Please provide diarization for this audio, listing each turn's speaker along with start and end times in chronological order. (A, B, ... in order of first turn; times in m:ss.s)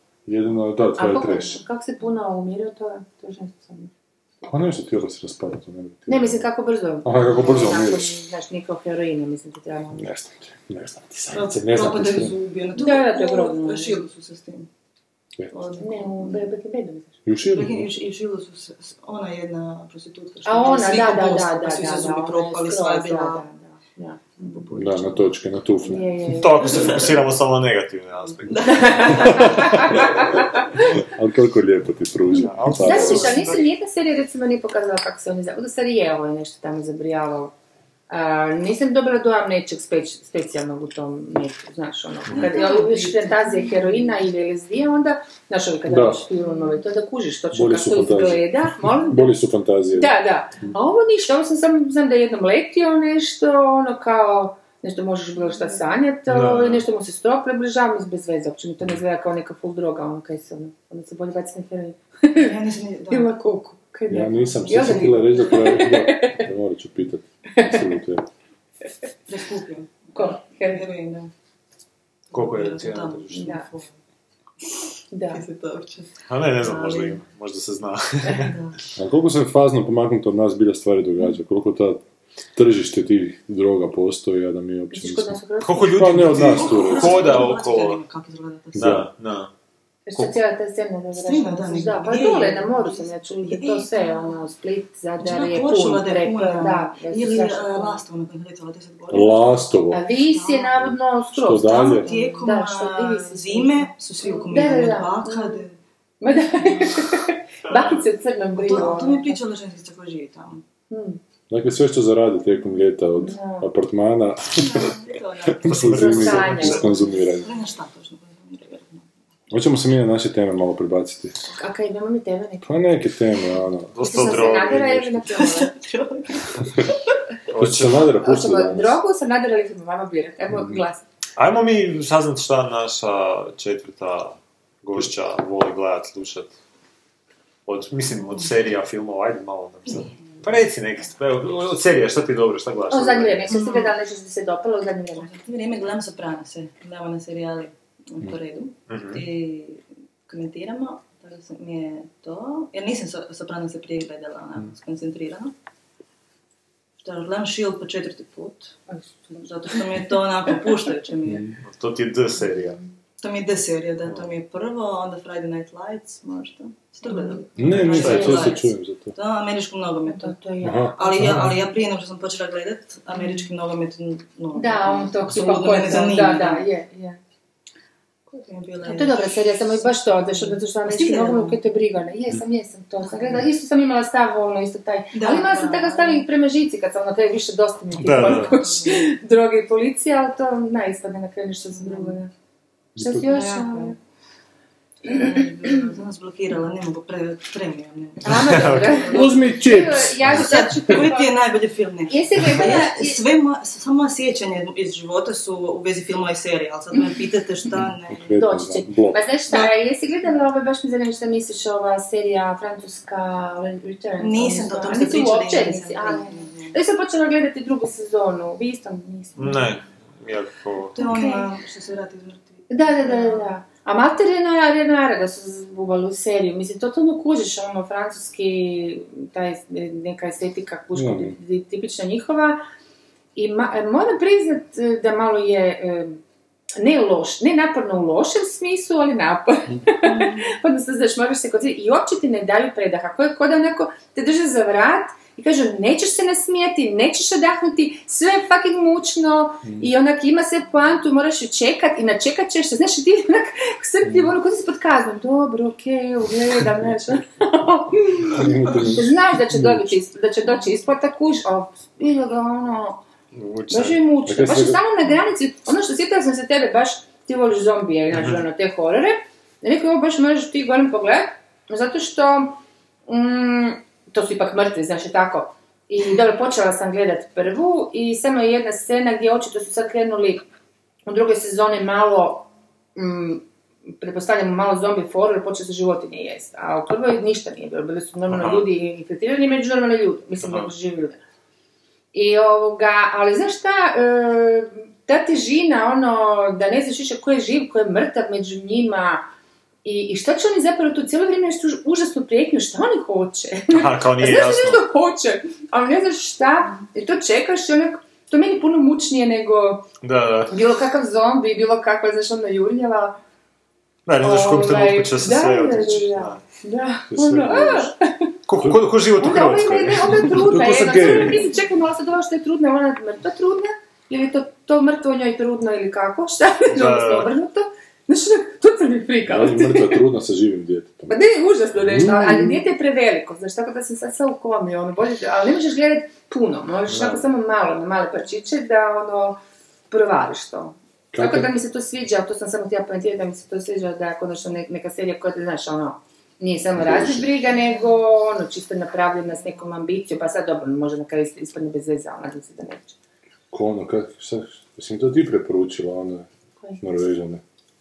0:00.3-0:01.6 A
0:01.0-0:03.9 B
0:04.4-0:06.4 A
0:06.1-0:10.0 B
0:07.0-0:08.2 A
0:09.9-0:12.4 A
0:11.3-0:14.7 C
0:12.8-0:14.0 B
0:15.5-0:16.5 C
0:15.8-0:17.1 B
0:17.2-0:17.9 A
0:17.5-0:23.4 C
0:20.4-0:24.7 B
0:24.4-0:25.3 C
0:24.7-0:26.2 A
0:25.8-0:26.8 B
0:26.4-0:29.2 D
0:26.7-0:27.1 C
0:28.5-0:29.6 C
0:28.6-0:30.6 B
0:29.1-0:33.4 A
0:32.3-0:33.7 D
0:32.8-0:37.5 B
0:38.1-0:49.4 B
0:42.3-0:44.1 C
0:45.9-0:46.2 A
0:46.4-0:46.8 C
0:47.5-0:50.1 A
0:49.9-1:02.5 B
0:56.3-0:56.8 D
1:02.3-1:03.3 C
1:03.1-1:06.4 B
1:04.1-1:08.2 A
1:04.6-1:05.3 C
1:07.6-1:07.8 B
1:09.3-1:11.3 C
1:10.1-1:10.8 B
1:12.3-1:13.9 C
1:12.3-1:13.5 D
1:13.3-1:13.6 B
1:15.1-1:15.4 B
1:15.3-1:17.2 C
1:16.3-1:18.5 D
1:18.3-1:18.7 C
1:19.0-1:22.0 A
1:22.6-1:27.5 A
1:24.9-1:26.3 B
1:25.6-1:28.0 D
1:26.3-1:29.0 C
1:28.7-1:29.1 A
1:28.8-1:29.5 D
1:30.0-1:38.0 B
1:31.2-1:34.4 C
1:35.2-1:40.9 C
1:39.1-1:40.0 A
1:39.9-1:45.6 B
1:41.3-1:42.1 A
1:41.6-1:45.7 C
1:46.2-1:49.4 B
1:46.6-1:47.0 C
1:48.6-1:50.6 C
1:50.9-1:51.2 B
1:51.5-1:54.9 A
1:53.2-1:53.7 B
1:54.6-1:59.1 C
1:55.6-1:57.5 A
1:55.6-1:56.8 D
1:55.9-1:57.1 B
1:59.5-2:01.4 A
2:01.5-2:02.8 B
2:02.6-2:04.9 A
2:03.9-2:05.2 D
2:04.0-2:05.7 B
2:05.3-2:06.7 C
2:07.5-2:08.2 D
2:07.6-2:09.0 A
2:08.2-2:11.0 B
2:10.5-2:10.8 A
2:11.4-2:16.5 D
2:17.6-2:23.5 D
2:19.9-2:20.1 C
2:22.9-2:25.3 B
2:23.5-2:23.9 C
2:25.2-2:35.5 C
2:28.9-2:29.2 D
2:37.0-2:38.8 C
2:38.9-2:39.8 B
2:39.4-2:41.5 C
2:41.2-2:41.6 A
2:41.6-2:42.8 D
2:43.2-2:50.4 C
2:47.1-2:48.5 B
2:47.6-2:49.1 A
2:47.6-2:48.5 D
2:50.0-2:51.5 B
2:50.6-2:51.6 A
2:51.0-2:56.6 C
2:53.1-2:53.5 B
2:54.5-2:57.2 B
2:58.3-2:59.3 C
2:58.8-3:12.3 B
2:59.8-3:01.6 C
3:03.0-3:03.5 C
3:05.1-3:06.3 C
3:07.9-3:08.5 D
3:08.2-3:09.1 C
3:11.7-3:12.2 C
3:13.0-3:13.2 A
3:13.0-3:14.0 B
3:13.2-3:14.0 C
3:15.0-3:28.3 C
3:15.1-3:15.8 B
3:18.2-3:21.3 B
3:18.4-3:19.0 D
3:19.1-3:21.0 A
3:22.1-3:23.2 B
3:28.1-3:29.2 A
3:28.3-3:39.6 B
3:34.2-3:36.7 C
3:39.4-3:41.0 D
3:40.9-3:43.5 C
3:41.0-3:41.5 B
3:42.7-3:52.6 B
3:50.9-3:51.4 A
3:53.4-3:56.2 B
3:56.8-4:23.0 B
4:00.0-4:00.5 C
4:09.6-4:09.9 A
4:14.0-4:14.3 A
4:18.3-4:19.9 A
4:23.3-4:24.0 D
4:23.7-4:40.4 B
4:24.2-4:24.8 A
4:28.1-4:28.4 D
4:41.0-4:43.4 B
4:44.0-4:51.2 B
4:48.3-4:48.7 D
4:50.4-4:50.7 D
4:52.1-4:59.2 B
4:59.8-5:09.9 B
5:03.7-5:04.8 D
5:10.0-5:10.5 D
5:10.5-5:13.2 B
5:14.0-5:16.4 D
5:14.2-5:18.3 B
5:17.1-5:17.9 A
5:18.5-5:20.5 D
5:18.6-5:19.0 A
5:19.2-5:30.0 B
5:20.2-5:21.5 A
5:26.7-5:27.3 D
5:29.3-5:31.1 A
5:31.1-5:53.0 B
5:31.8-5:32.6 A
5:36.9-5:37.2 D
5:41.1-5:41.5 A
5:46.8-5:47.3 A
5:53.5-5:56.3 A
5:56.8-5:57.4 A